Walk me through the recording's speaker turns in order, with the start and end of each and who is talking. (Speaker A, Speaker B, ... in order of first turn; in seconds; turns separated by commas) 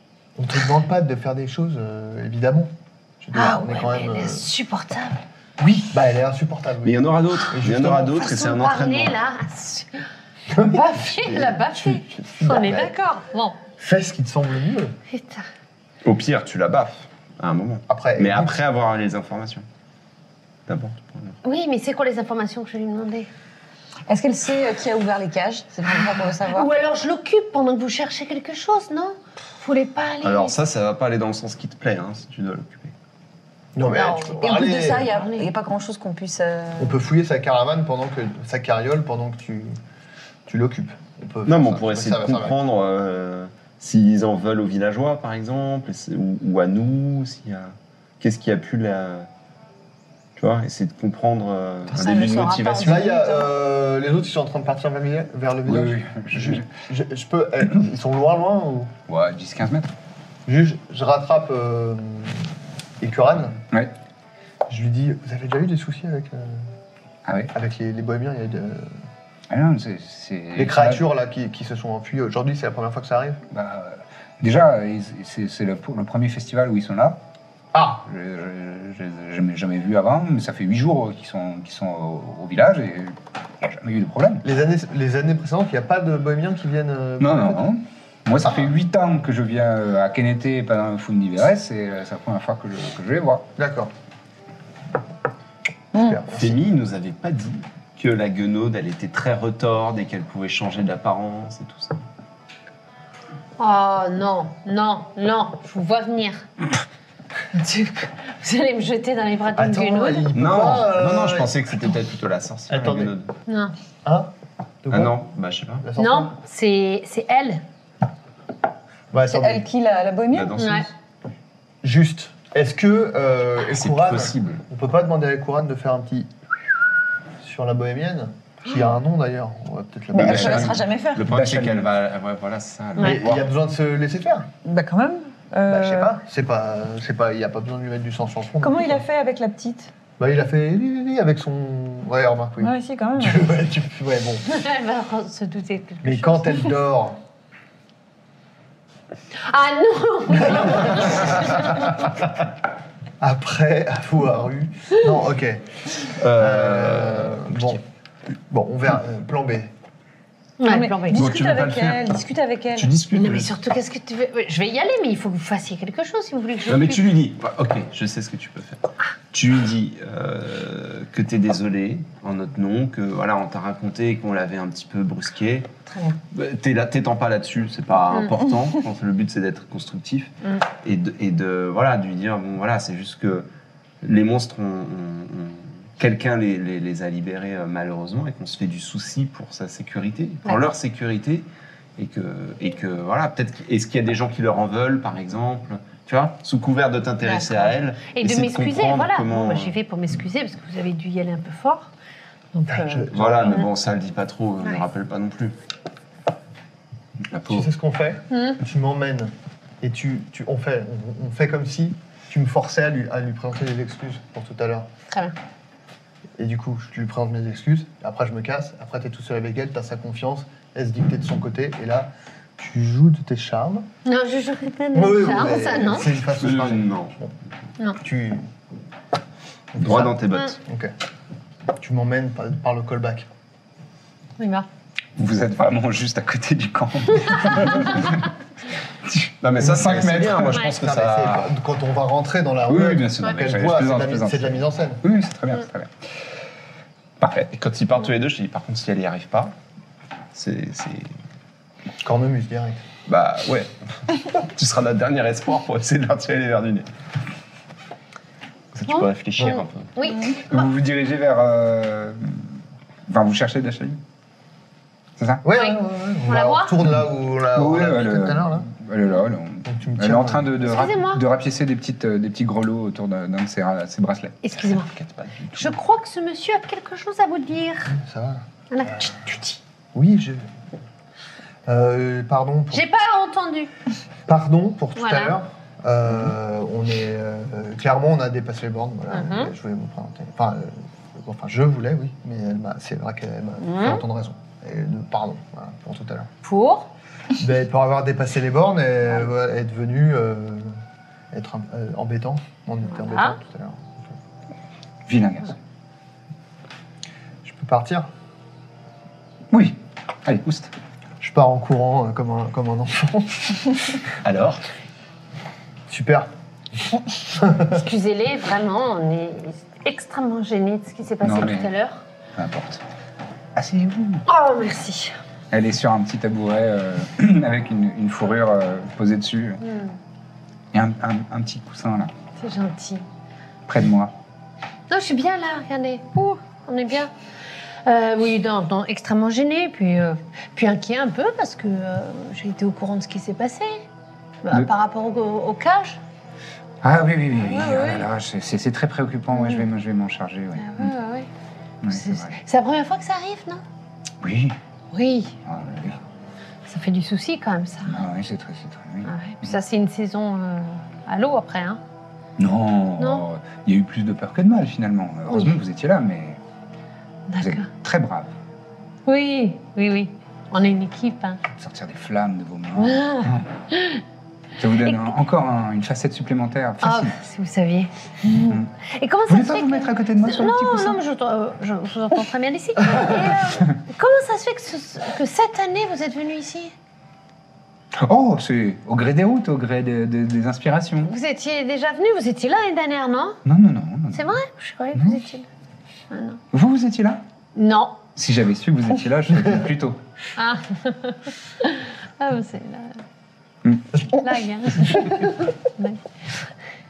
Speaker A: 0.3-4.5, Speaker B: 3.3-5.2, Speaker A: 5.6-8.3, Speaker C: 6.8-9.2, Speaker B: 8.1-10.0, Speaker A: 10.5-12.9, Speaker B: 10.6-13.6, Speaker A: 13.8-15.0, Speaker B: 15.1-15.4, Speaker C: 16.0-19.6, Speaker A: 17.9-18.6, Speaker C: 20.7-21.4, Speaker B: 21.4-23.3, Speaker D: 24.1-26.7, Speaker B: 26.4-30.6, Speaker C: 30.2-32.9, Speaker A: 33.7-35.1, Speaker B: 33.9-34.4, Speaker D: 34.4-37.0, Speaker B: 35.1-35.5, Speaker A: 36.8-39.8, Speaker A: 40.5-42.6, Speaker C: 41.5-49.3, Speaker C: 50.4-53.1, Speaker D: 51.9-53.5, Speaker A: 52.8-58.9, Speaker E: 55.6-56.7, Speaker E: 59.1-59.9, Speaker A: 60.5-63.6, Speaker A: 64.7-66.7, Speaker E: 67.2-67.5, Speaker A: 67.5-69.0, Speaker E: 69.5-71.0, Speaker A: 70.5-73.4, Speaker E: 73.5-77.2, Speaker A: 77.7-78.0, Speaker E: 78.0-84.4, Speaker A: 84.4-87.7, Speaker E: 87.2-93.5, Speaker A: 88.4-88.7, Speaker A: 93.5-93.9, Speaker D: 95.9-96.2, Speaker A: 95.9-96.6, Speaker C: 96.3-102.0, Speaker B: 103.6-106.5, Speaker B: 107.5-110.3, Speaker A: 109.5-112.0, Speaker C: 110.3-113.3, Speaker A: 112.7-113.1, Speaker B: 113.5-113.7, Speaker A: 114.0-114.3, Speaker A: 114.8-115.2, Speaker C: 114.9-115.9, Speaker A: 115.8-116.3, Speaker B: 116.0-117.6, Speaker A: 119.1-119.7, Speaker D: 119.2-120.8, Speaker C: 120.3-120.9, Speaker B: 120.6-120.9, Speaker A: 121.8-126.3, Speaker C: 123.6-124.6, Speaker A: 127.4-130.8, Speaker D: 130.1-131.3, Speaker E: 130.2-131.9, Speaker C: 130.4-133.4, Speaker A: 133.0-134.5, Speaker D: 134.6-136.2, Speaker A: 135.7-139.0, Speaker D: 138.6-139.9, Speaker A: 140.2-144.6, Speaker D: 142.6-143.6, Speaker B: 144.5-146.7, Speaker A: 146.0-147.2, Speaker B: 149.3-152.1, Speaker A: 150.4-151.6, Speaker A: 153.2-157.8, Speaker C: 156.1-157.8, Speaker A: 158.5-159.7, Speaker B: 160.6-161.2, Speaker D: 160.6-162.9, Speaker C: 161.1-162.1, Speaker C: 162.7-163.6, Speaker B: 163.1-167.1, Speaker C: 166.7-175.7, Speaker C: 176.3-183.5, Speaker C: 184.0-191.4, Speaker C: 192.0-199.8, Speaker B: 197.2-201.9, Speaker B: 202.5-203.7, Speaker A: 202.7-203.6, Speaker C: 203.1-205.6, Speaker E: 207.3-207.7, Speaker A: 207.5-214.9, Speaker B: 208.3-208.6, Speaker B: 215.1-215.3, Speaker A: 216.4-223.9, Speaker B: 224.0-226.1, Speaker A: 224.9-227.3, Speaker C: 226.2-227.2, Speaker A: 228.0-228.5, Speaker A: 229.7-230.9, Speaker C: 229.8-230.6, Speaker A: 231.8-233.3, Speaker B: 234.4-234.7, Speaker E: 235.2-238.3, Speaker E: 239.1-240.6, Speaker C: 239.4-241.5, Speaker A: 240.7-245.0, Speaker E: 242.7-245.9, Speaker E: 247.2-247.5, Speaker C: 247.4-249.5, Speaker C: 250.3-251.1, Speaker A: 252.0-252.8, Speaker C: 253.1-256.9, Speaker C: 258.7-259.9, Speaker B: 258.9-260.7, Speaker E: 260.5-262.5, Speaker E: 263.1-264.0, Speaker E: 265.2-265.4, Speaker A: 265.4-268.7, Speaker B: 265.5-266.8, Speaker E: 267.5-274.4, Speaker A: 269.6-270.6, Speaker B: 270.6-271.2, Speaker B: 274.4-274.9, Speaker C: 274.7-275.8, Speaker B: 275.5-278.0, Speaker A: 277.9-278.4, Speaker B: 278.7-279.6, Speaker A: 279.9-280.5, Speaker A: 281.6-282.8, Speaker B: 282.7-283.7, Speaker A: 284.3-296.3, Speaker B: 284.9-285.4, Speaker B: 289.1-289.5, Speaker B: 293.6-294.0, Speaker B: 296.4-296.9, Speaker A: 297.4-300.8, Speaker A: 301.3-304.1, Speaker B: 302.9-303.3, Speaker E: 305.1-305.6, Speaker A: 307.4-308.1, Speaker E: 309.5-310.7, Speaker A: 311.2-313.9, Speaker C: 314.2-314.6, Speaker A: 315.9-317.8, Speaker B: 317.6-322.0, Speaker E: 321.2-321.7, Speaker E: 322.4-322.8, Speaker E: 323.6-324.2, Speaker B: 324.3-325.2, Speaker E: 325.5-329.6, Speaker B: 329.6-329.9, Speaker E: 330.7-332.1, Speaker B: 332.4-333.0, Speaker E: 333.7-334.1, Speaker B: 334.9-337.1, Speaker B: 337.8-343.9, Speaker B: 344.4-346.0, Speaker E: 346.8-350.9, Speaker B: 347.5-348.0, Speaker B: 349.4-349.6, Speaker B: 350.6-351.3, Speaker E: 351.8-352.4, Speaker B: 351.9-353.6, Speaker E: 354.2-354.6, Speaker B: 354.9-355.4, Speaker E: 355.4-356.0, Speaker B: 356.6-358.0, Speaker E: 357.9-359.6, Speaker B: 359.0-361.8, Speaker E: 362.4-366.4, Speaker B: 363.0-363.2, Speaker B: 367.3-367.7, Speaker E: 367.4-368.3, Speaker B: 369.1-371.4, Speaker E: 371.5-373.4, Speaker B: 372.8-374.0, Speaker E: 374.6-377.2, Speaker B: 374.8-375.1, Speaker B: 376.8-386.7, Speaker E: 378.4-378.7, Speaker E: 379.3-381.0, Speaker E: 388.0-391.1, Speaker B: 391.0-393.4, Speaker E: 393.4-394.4, Speaker B: 394.1-395.5, Speaker E: 394.9-395.2, Speaker B: 396.1-396.4, Speaker E: 396.5-397.2, Speaker B: 397.6-398.0, Speaker E: 398.1-400.0, Speaker B: 400.4-403.0, Speaker B: 404.1-406.0